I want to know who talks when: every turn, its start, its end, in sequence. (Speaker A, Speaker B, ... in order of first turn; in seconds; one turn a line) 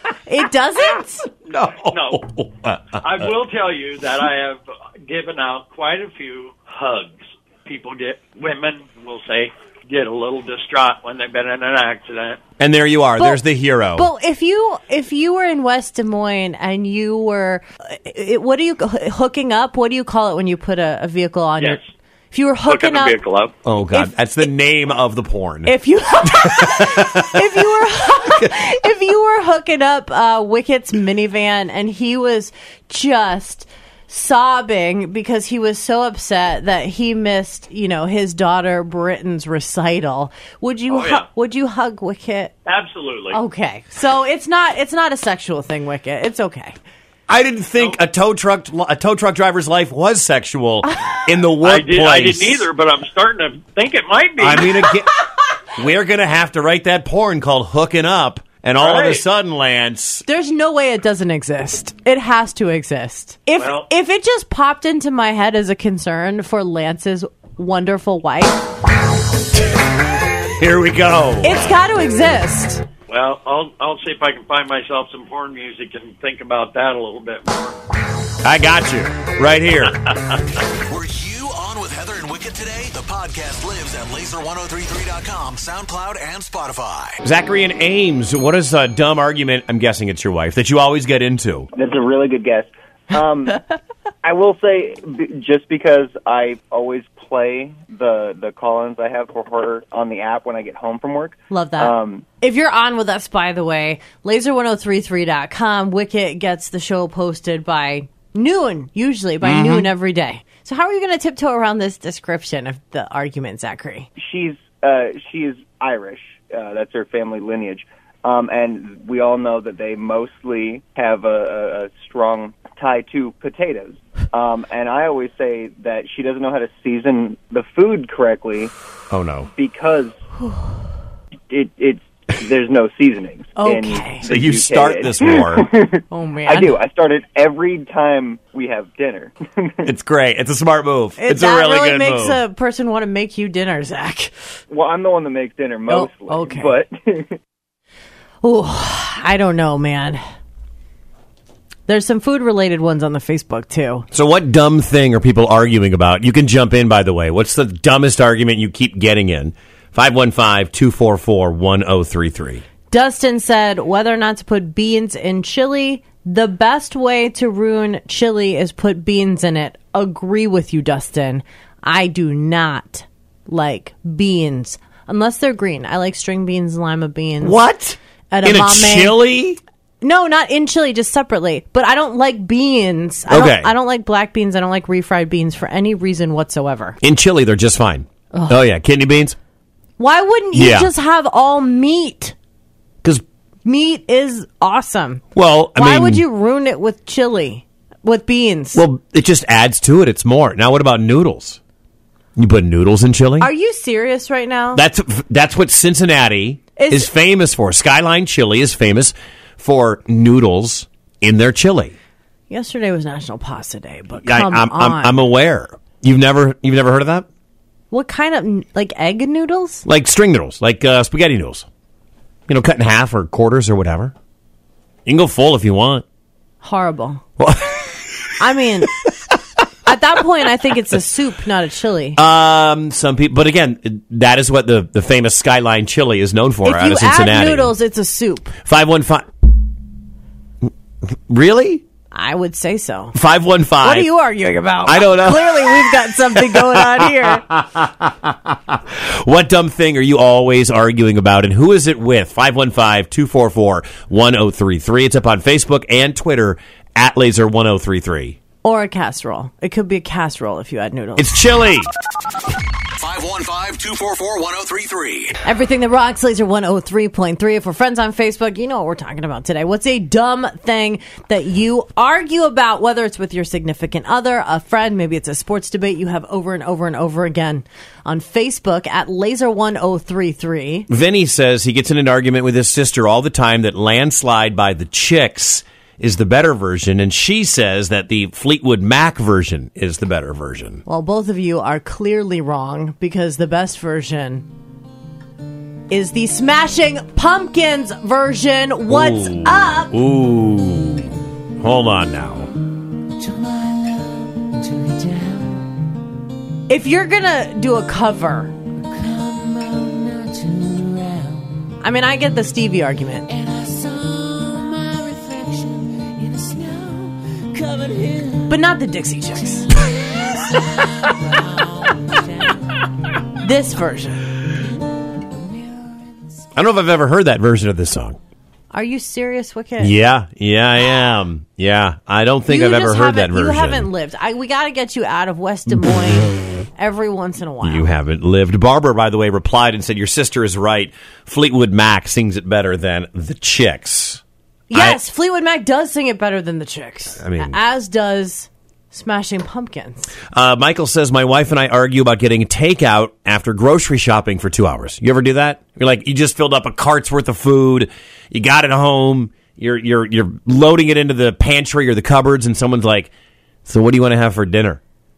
Speaker A: 0.2-1.3
Speaker B: 1.4-3.0
Speaker C: 1.9-2.2
Speaker C: 2.9-12.4
Speaker B: 12.6-14.1
Speaker A: 13.9-21.8
Speaker A: 22.3-23.2
Speaker C: 22.6-23.5
Speaker B: 23.6-25.7
Speaker A: 25.6-42.5
Speaker B: 26.4-27.6
Speaker C: 40.9-41.3
Speaker C: 42.6-43.4
Speaker A: 43.3-46.8
Speaker B: 47.3-52.6
Speaker C: 51.6-55.0
Speaker B: 54.4-55.1
Speaker B: 55.8-60.2
Speaker C: 58.8-59.2
Speaker A: 60.2-68.6
Speaker C: 63.5-63.9
Speaker B: 70.5-71.8
Speaker A: 71.4-72.8
Speaker C: 73.1-77.8
Speaker B: 78.4-80.1
Speaker D: 80.9-87.2
Speaker B: 87.2-91.7
Speaker E: 91.7-93.6
Speaker E: 94.2-102.2
Speaker A: 101.5-114.1
Speaker B: 109.4-109.9
Speaker E: 114.2-128.7
Speaker B: 129.1-129.5
Speaker E: 129.5-130.1
Speaker E: 131.5-139.8
Speaker A: 133.6-134.2
Speaker B: 134.3-135.7
Speaker A: 136.1-136.8
Speaker B: 139.8-142.4
Speaker A: 141.2-144.3
Speaker E: 144.7-147.4
Speaker A: 145.9-146.8
Speaker A: 148.4-150.2
Speaker A: 151.9-154.1
Speaker B: 154.1-162.6
Speaker A: 162.9-177.6
Speaker B: 177.4-179.6
Speaker A: 178.3-179.2
Speaker A: 180.0-187.0
Speaker B: 183.3-183.7
Speaker B: 187.0-189.4
Speaker A: 188.3-188.6
Speaker A: 190.0-192.3
Speaker B: 190.5-190.9
Speaker A: 193.6-195.2
Speaker B: 195.3-196.2
Speaker A: 195.8-198.8
Speaker B: 198.7-201.6
Speaker B: 202.3-203.5
Speaker A: 203.4-204.8
Speaker B: 204.7-211.9
Speaker A: 206.8-207.1
Speaker A: 212.5-215.2
Speaker B: 214.2-217.2
Speaker A: 217.9-219.8
Speaker B: 219.8-221.7
Speaker B: 222.5-224.1
Speaker B: 225.1-226.0
Speaker A: 226.6-227.2
Speaker B: 227.4-228.3
Speaker A: 228.4-228.9
Speaker A: 229.8-232.2
Speaker B: 232.2-237.7
Speaker A: 236.6-238.5
Speaker B: 238.6-239.3
Speaker B: 241.1-241.8
Speaker A: 242.1-243.1
Speaker B: 243.1-244.1
Speaker A: 243.8-247.4
Speaker B: 244.8-258.4
Speaker A: 258.6-261.3
Speaker B: 261.2-261.9
Speaker D: 263.0-265.3
Speaker A: 265.4-280.9
Speaker B: 280.9-290.8
Speaker A: 290.9-294.4
Speaker A: 295.9-299.9
Speaker B: 298.9-302.5
Speaker B: 304.5-305.4
Speaker A: 306.7-308.5
Speaker B: 309.0-311.4
Speaker A: 311.8-313.3
Speaker B: 313.4-318.3
Speaker A: 318.4-319.7
Speaker A: 323.4-324.3
Speaker B: 326.5-328.2
Speaker A: 328.7-329.9
Speaker B: 329.8-333.9
Speaker A: 332.5-337.9
Speaker B: 337.6-344.2
Speaker A: 344.7-350.1
Speaker B: 344.7-345.0
Speaker B: 347.2-347.6
Speaker B: 350.3-363.1
Speaker B: 363.6-364.8